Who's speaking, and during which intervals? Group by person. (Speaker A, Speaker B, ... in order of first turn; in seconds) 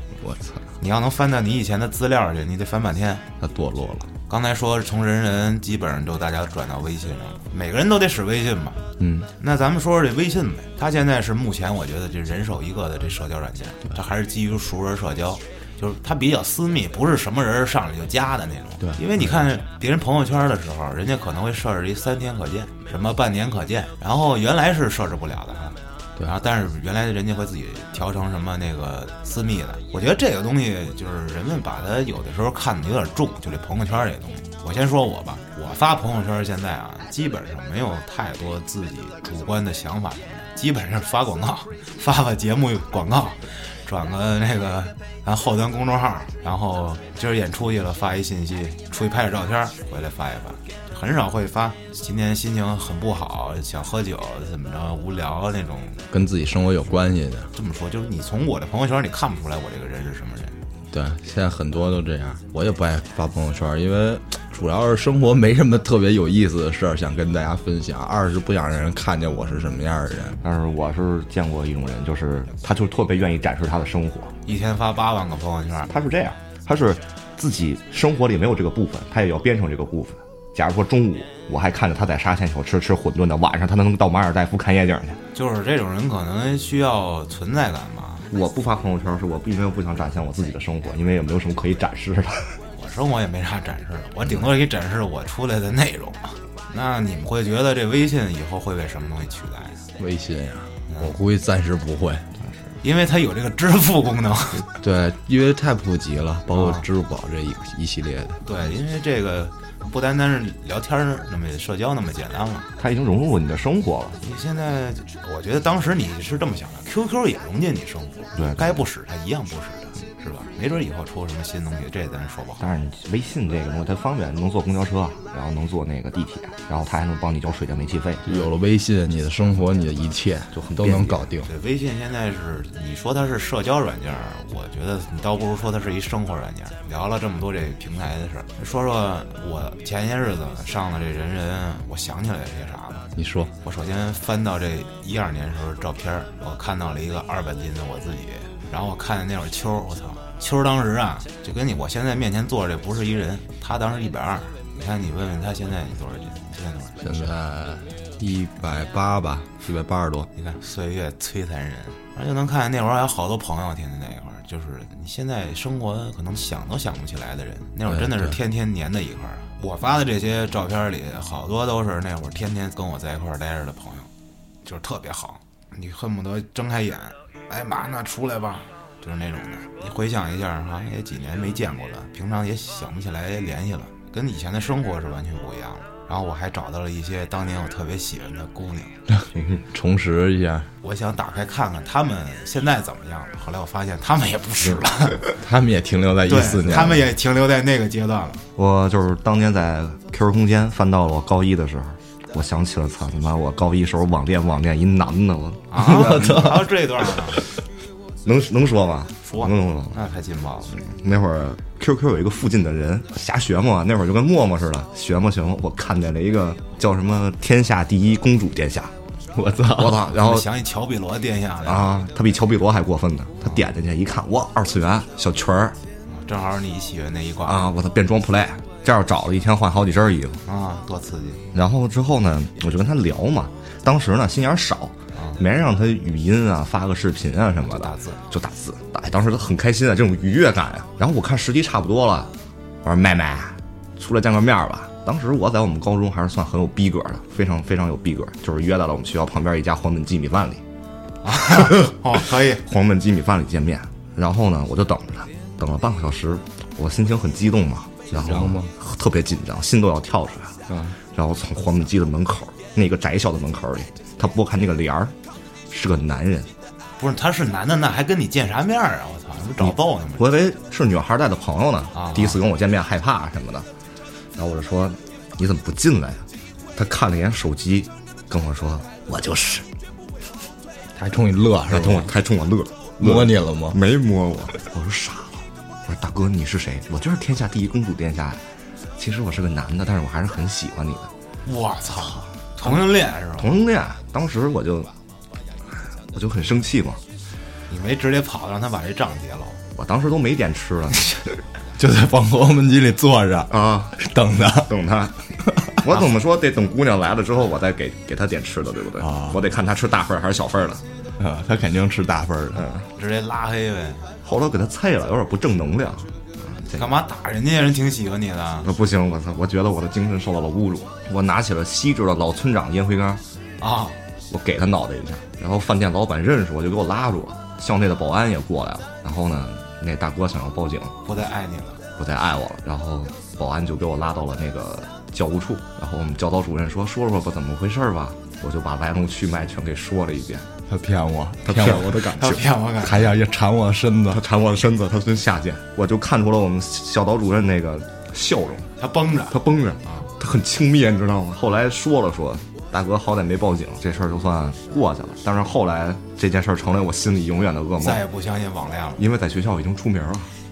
Speaker A: 0.2-0.7, 3.4-4.1, 9.0-9.3, 18.8-19.3, 56.1-57.5, 60.9-70.4, 100.0-102.2, 104.8-108.4, 128.2-131.5, 143.1-143.5, 157.0-160.3, 167.9-168.4, 189.7-190.7, 195.4-197.1, 205.9-206.6, 219.3-220.0, 258.1-258.7, 260.7-261.0, 280.9-282.1, 283.0-283.8, 301.7-304.7, 305.4-306.0, 309.0-309.4, 311.2-312.6, 340.7-342.0, 342.8-344.2
Speaker B: 0.8-3.2, 4.3-8.8, 9.4-56.0, 57.5-60.6, 74.4-75.9, 85.3-88.3, 92.7-99.8, 100.9-101.2, 102.8-104.7, 106.5-106.9, 108.4-112.7, 114.2-122.6, 131.4-143.1, 143.6-157.3, 160.3-174.1, 174.6-189.0, 190.8-195.3, 196.2-198.4, 205.7-207.4, 209.2-210.8, 220.1-221.9, 226.1-227.7, 230.4-231.4, 235.1-235.4, 237.6-238.2, 251.2-252.6, 267.0-270.3, 271.9-272.4, 291.4-293.5, 297.7-299.6, 312.9-314.1, 316.6-318.7, 323.6-324.0, 331.0-331.8, 341.6-343.1, 348.8-350.1, 357.8-359.0
Speaker C: 70.4-74.3, 75.9-85.2, 88.3-92.6, 102.4-102.7, 112.8-114.2, 118.3-118.8, 122.6-128.2, 130.5-131.3, 189.3-189.6, 198.6-206.4, 208.2-210.0, 210.7-218.9, 219.8-220.4, 221.6-225.8, 227.4-230.4, 231.5-242.3, 242.8-250.6, 252.6-265.1, 265.7-266.5, 269.6-273.7, 274.4-279.7, 281.7-288.4, 289.0-291.1, 292.6-294.9, 296.1-297.0, 299.8-301.1, 303.5-303.9, 304.6-305.1, 305.8-310.8, 312.5-312.9, 314.2-316.9, 318.6-323.2, 324.3-330.9, 332.0-340.5, 341.4-342.4, 344.1-348.7, 349.3-358.0, 359.0-360.3